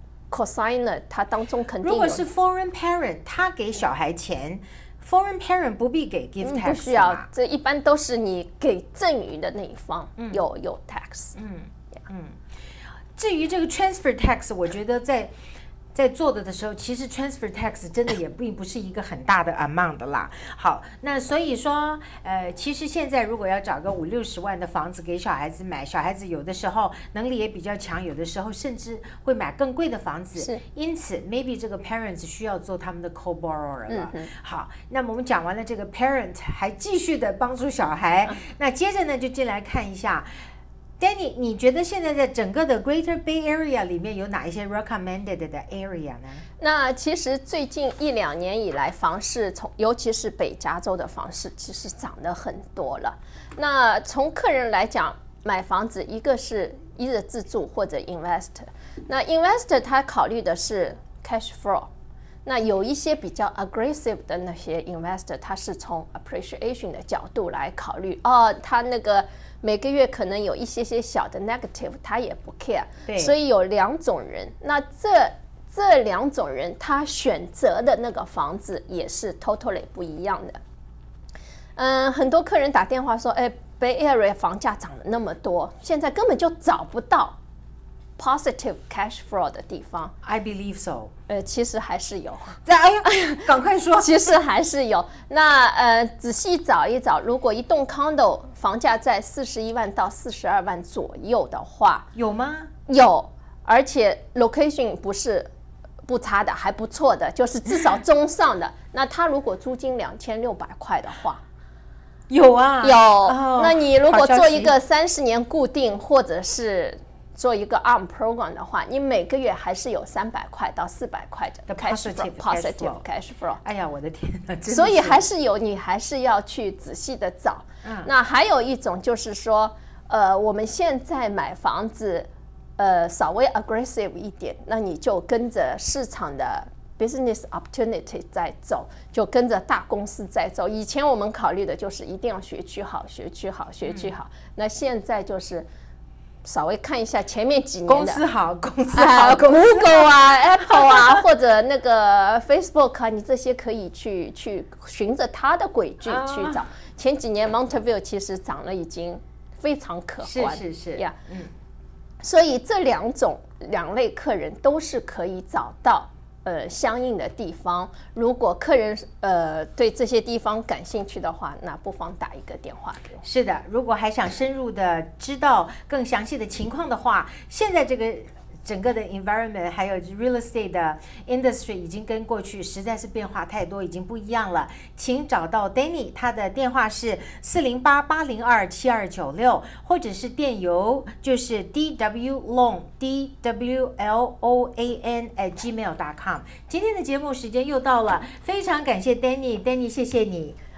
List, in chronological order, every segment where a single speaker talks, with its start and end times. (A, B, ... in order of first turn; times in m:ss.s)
0:00.3-0:02.2 A
0:01.8-0:07.3 B
0:06.4-0:11.3 A
0:11.4-0:12.4 B
0:13.2-0:15.3 B
0:15.9-0:40.4 B
0:33.9-0:34.3 A
0:41.0-0:46.4 B
0:46.6-1:01.9 A
1:02.4-1:20.6 A
1:13.1-1:13.3 B
1:21.8-1:27.4 A
1:28.2-1:30.1 A
1:30.2-1:31.1 B
1:31.3-1:42.0 A
1:32.6-1:34.3 B
1:42.1-1:42.7 B
1:42.9-1:45.5 A
1:46.0-1:51.4 A
1:52.3-1:54.7 B
1:52.8-2:03.6 A
2:01.7-2:03.0 B
2:03.6-2:05.2 B
2:04.7-2:25.7 A
2:07.8-2:08.1 B
2:23.8-2:24.1 B
2:26.4-2:28.2 A
2:27.9-2:31.2 B
2:28.9-2:41.1 A
2:36.0-2:36.6 B
2:40.2-2:41.5 B
2:42.2-2:53.2 A
2:53.2-3:20.6 B